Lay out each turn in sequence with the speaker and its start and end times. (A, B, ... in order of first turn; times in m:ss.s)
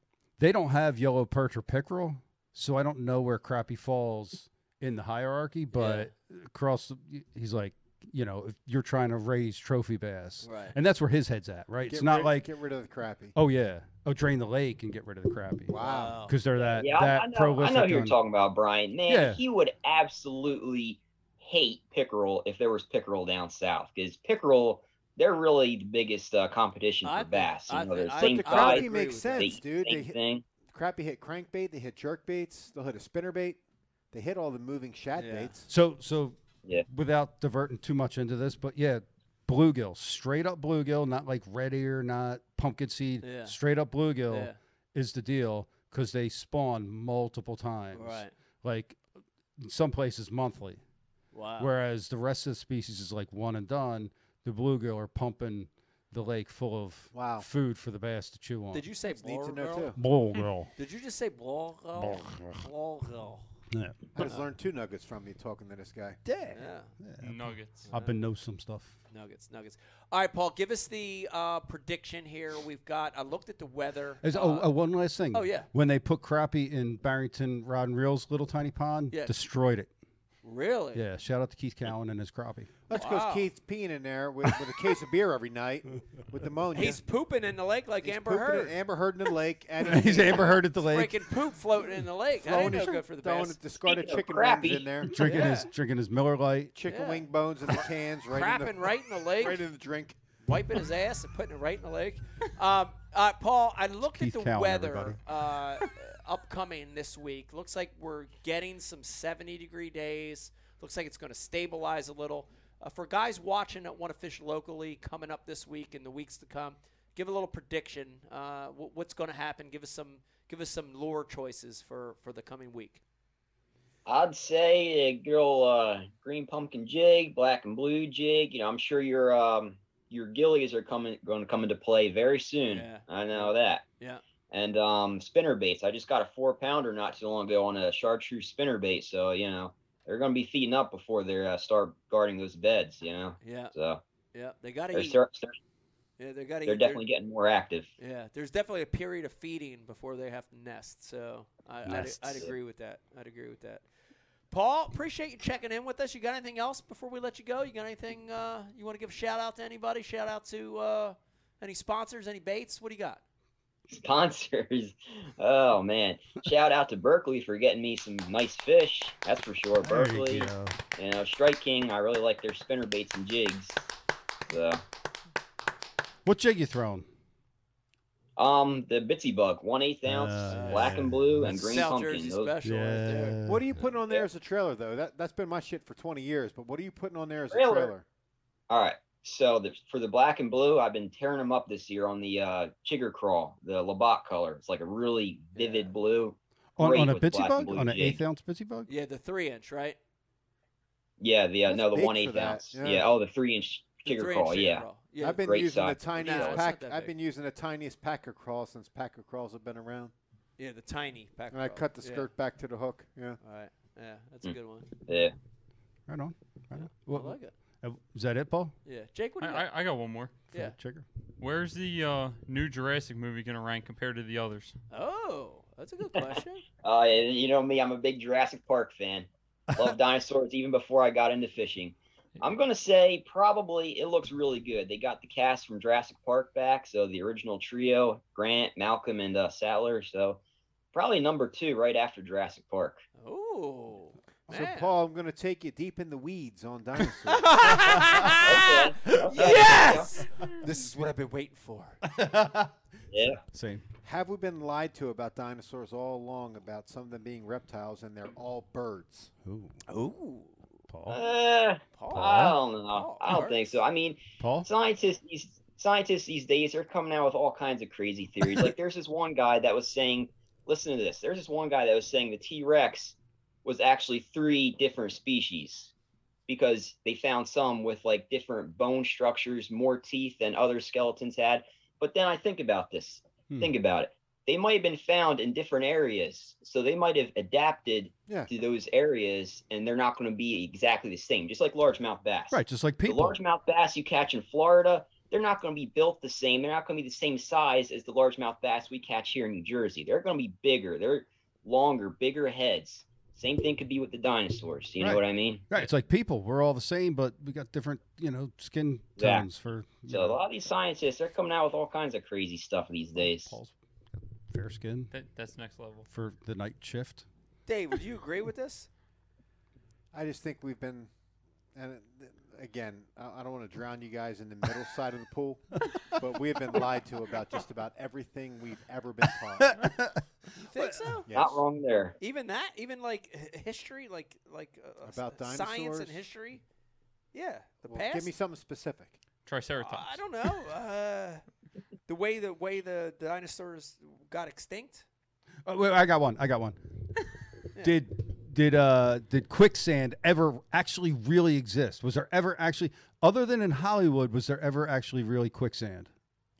0:00.4-0:12.5 A
0:05.7-0:06.1 B
0:10.4-0:10.8 B
0:11.9-0:13.4 C
0:13.3-0:18.2 A
0:15.7-0:16.2 C
0:15.8-0:16.8 B
0:16.8-0:30.4 D
0:19.1-0:19.4 A
0:27.0-0:29.5 B
0:28.2-0:33.6 C
0:34.1-0:35.7 C
0:35.2-0:35.5 B
0:35.7-0:36.4 A
0:36.9-0:49.0 A
0:43.2-0:43.6 B
0:44.3-0:44.6 B
0:47.9-0:48.3 B
0:49.6-0:50.8 A
0:51.3-0:51.7 B
0:51.6-0:58.8 A
0:57.1-0:57.5 C
0:58.7-1:00.0 B
0:59.1-1:00.0 C
1:00.0-1:00.7 A
1:00.8-1:03.5 B
1:02.0-1:02.6 A
1:03.7-1:04.2 A
1:04.1-1:06.2 C
1:06.2-1:08.9 A
1:06.5-1:06.9 B
1:07.2-1:07.9 E
1:07.9-1:08.2 B
1:09.1-1:14.7 B
1:14.2-1:19.9 A
1:15.3-1:15.7 B
1:19.1-1:19.4 B
1:20.4-1:21.0 B
1:20.9-1:22.7 A
1:22.9-1:27.0 C
1:22.9-1:23.5 B
1:26.7-1:28.7 B
1:28.0-1:30.6 C
1:29.8-1:31.3 A
1:30.8-1:33.6 B
1:32.4-1:35.4 C
1:33.8-1:34.9 D
1:35.0-1:36.7 A
1:35.2-1:35.7 B
1:36.7-1:40.2 C
1:36.9-1:37.3 B
1:38.3-1:39.6 B
1:40.4-2:03.0 B
1:44.0-1:45.2 A
2:04.0-2:13.8 D
2:12.7-2:14.2 B
2:14.5-2:24.0 D
2:23.4-2:23.7 B
2:24.3-2:25.2 B
2:24.9-2:25.6 D
2:26.2-2:27.0 B
2:26.6-2:27.9 D
2:28.0-2:33.8 B
2:31.8-2:32.5 A
2:34.5-2:43.2 B
2:43.9-2:53.8 D
2:49.8-2:50.8 A
2:54.5-2:54.8 D
2:56.2-2:57.1 A
2:58.4-3:02.5 D
3:00.0-3:01.8 A
3:00.5-3:03.4 B
3:02.6-3:03.7 A
3:03.4-3:08.0 C
3:07.5-3:07.9 D
3:08.7-3:18.2 D
3:15.6-3:15.9 B
3:16.8-3:18.9 A
3:18.9-3:20.0 B
3:21.2-3:24.8 D
3:21.7-3:23.1 C
3:24.0-3:25.4 B
3:25.2-3:30.1 C
3:25.4-3:26.6 D
3:26.2-3:27.1 B
3:30.6-3:32.3 B
3:31.5-3:33.4 C
3:33.4-3:34.9 B
3:35.1-3:35.3 D
3:36.1-3:38.7 A
3:36.7-3:37.5 B
3:38.8-3:39.6 B
3:39.4-3:40.4 E
3:40.5-3:41.0 A
3:41.4-3:44.7 E
3:44.9-3:46.6 B
3:46.8-4:00.4 D
3:49.7-3:50.0 A
4:00.9-4:03.0 D
4:03.2-4:04.9 B
4:04.5-4:07.6 C
4:07.3-4:12.0 B
4:07.8-4:08.4 A
4:08.4-4:10.1 D
4:12.0-4:12.7 A
4:13.1-4:13.4 D
4:13.4-4:13.8 A
4:14.0-4:19.3 C
4:19.4-4:19.8 A
4:19.9-4:20.6 B
4:20.9-4:21.3 A
4:21.1-4:35.9 D
4:22.0-4:22.4 B
4:22.1-4:22.6 A
4:22.9-4:23.8 B
4:24.4-4:24.7 A
4:36.5-5:05.7 D
4:52.5-4:53.4 A
5:05.0-5:10.4 A
5:09.2-5:09.4 D
5:10.1-5:13.5 D
5:13.2-5:15.1 A
5:15.1-5:16.1 E
5:16.1-5:17.2 A
5:17.7-5:18.9 B
5:20.1-5:21.1 C
5:21.7-5:29.8 C
5:29.3-5:31.2 A
5:30.7-5:31.3 B
5:31.3-5:31.6 C
5:31.3-5:32.2 D
5:32.2-5:36.6 B
5:35.0-5:36.2 C
5:37.3-5:38.3 B
5:37.9-5:39.2 C
5:39.4-5:40.2 E
5:39.8-5:41.4 B
5:42.1-5:45.0 B
5:45.6-5:46.8 A
5:47.8-5:56.1 A